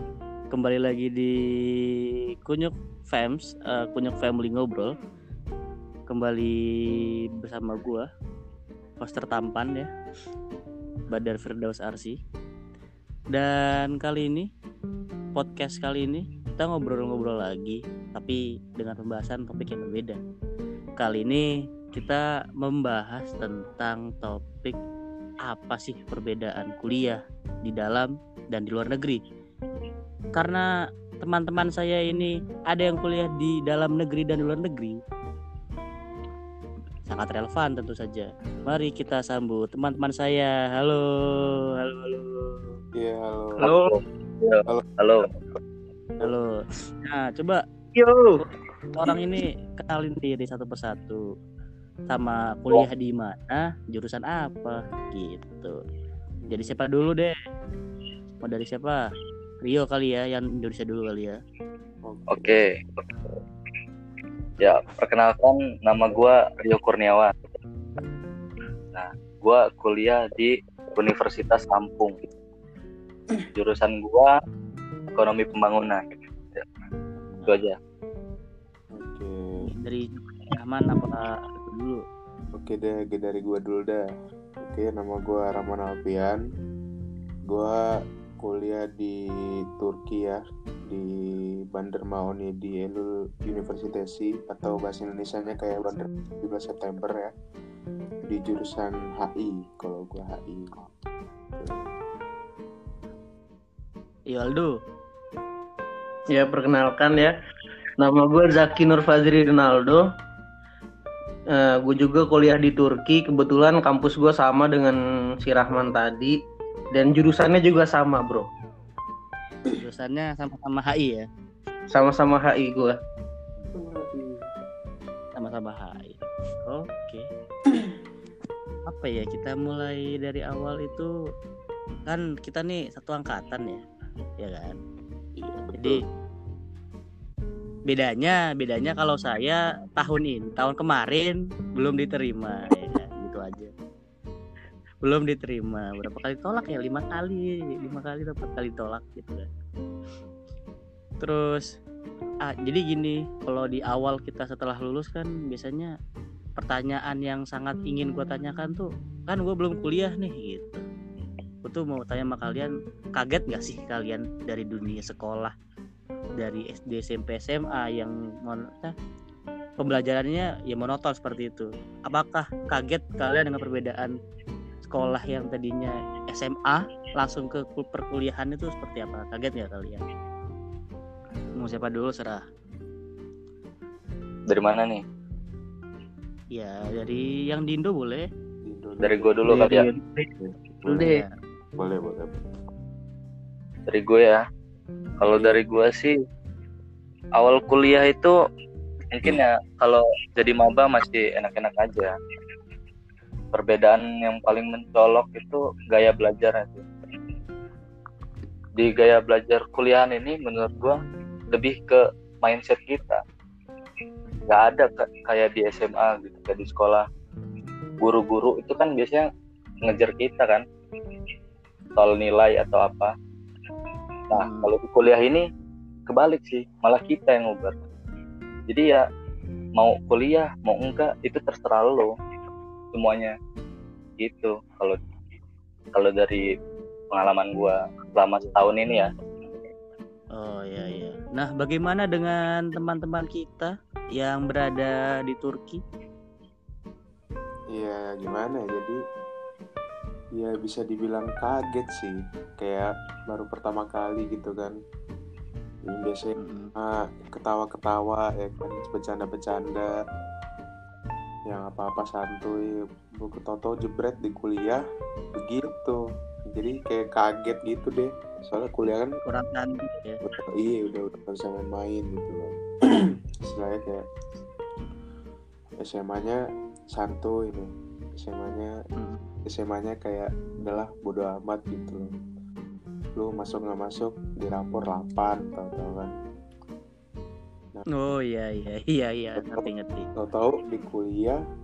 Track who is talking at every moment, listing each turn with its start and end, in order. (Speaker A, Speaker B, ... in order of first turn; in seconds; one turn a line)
Speaker A: 0.5-4.9
Speaker A: 6.1-8.1
Speaker A: 9.0-9.9
Speaker A: 11.1-12.2
Speaker A: 13.3-14.5
Speaker A: 15.3-20.2
Speaker A: 21.0-24.8
Speaker A: 25.5-29.2
Speaker A: 30.4-30.7
Speaker A: 31.2-35.0
Speaker A: 37.1-42.6
Speaker B: 43.0-43.7
Speaker C: 43.6-43.9
Speaker D: 43.6-45.3
Speaker A: 46.2-47.6
Speaker C: 47.9-48.3
Speaker A: 48.4-51.2
Speaker A: 52.1-55.7
Speaker A: 56.5-57.3
Speaker A: 58.4-59.0
Speaker A: 59.6-61.4
Speaker B: 62.0-62.5
Speaker D: 62.3-63.0
Speaker D: 64.6-67.3
Speaker D: 68.9-72.2
Speaker D: 73.4-74.3
Speaker D: 75.1-76.0
Speaker A: 77.2-77.5
Speaker D: 77.5-77.8
Speaker B: 78.9-79.6
Speaker A: 79.6-82.0
Speaker B: 82.5-84.0
Speaker B: 84.6-86.4
Speaker B: 87.5-87.8
Speaker B: 88.4-89.2
Speaker B: 89.7-97.3
Speaker B: 98.3-100.8
Speaker B: 101.5-101.8
Speaker A: 104.3-104.7
Speaker C: 106.3-107.3
Speaker C: 108.0-110.0
Speaker C: 111.5-116.3
Speaker C: 116.9-118.5
Speaker A: 119.8-121.2
Speaker C: 121.9-123.0
Speaker B: 123.7-124.5
Speaker A: 125.4-127.2
Speaker A: 128.8-131.1
Speaker A: 132.1-133.8
Speaker A: 134.4-134.8
Speaker B: 135.4-136.0
Speaker A: 137.9-143.7
Speaker A: 145.0-149.5
Speaker A: 151.2-151.7
Speaker A: 152.4-155.9
Speaker A: 156.6-160.8
Speaker A: 161.6-165.5
Speaker A: 166.4-168.9
Speaker A: 169.8-174.1
Speaker A: 174.9-180.0
Speaker A: 181.5-182.4
Speaker D: 184.5-185.0
Speaker A: 186.5-188.2
Speaker B: 188.6-189.8
Speaker D: 189.0-189.8
Speaker C: 189.4-190.3
Speaker B: 190.4-191.0
Speaker C: 190.8-191.2
Speaker A: 190.9-191.3
Speaker B: 191.8-192.5
Speaker D: 193.9-194.4
Speaker D: 195.2-196.1
Speaker D: 197.3-198.3
Speaker D: 199.1-202.1
Speaker D: 203.5-206.8
Speaker D: 208.8-211.0
Speaker D: 211.5-213.2
Speaker D: 214.5-217.0
Speaker D: 218.0-219.3
Speaker D: 219.8-220.6
Speaker D: 222.0-223.1
Speaker D: 224.3-225.4
Speaker A: 224.3-224.7
Speaker D: 226.1-227.8
Speaker D: 228.7-229.0
Speaker D: 229.8-232.1
Speaker D: 232.9-233.3
Speaker D: 234.2-235.0
Speaker D: 235.9-236.4
Speaker D: 237.1-239.1
Speaker A: 240.3-245.8
Speaker B: 247.7-249.0
Speaker B: 250.3-254.8
Speaker B: 255.9-259.9
Speaker A: 256.4-256.7
Speaker B: 261.5-264.8
Speaker B: 265.4-266.0
Speaker B: 266.5-269.1
Speaker A: 269.2-270.2
Speaker B: 270.2-272.6
Speaker B: 273.4-274.0
Speaker B: 275.8-276.4
Speaker B: 276.9-278.7
Speaker A: 279.0-279.3
Speaker B: 279.4-282.1
Speaker B: 283.1-286.1
Speaker A: 287.9-290.1
Speaker B: 289.4-289.6
Speaker B: 290.2-291.4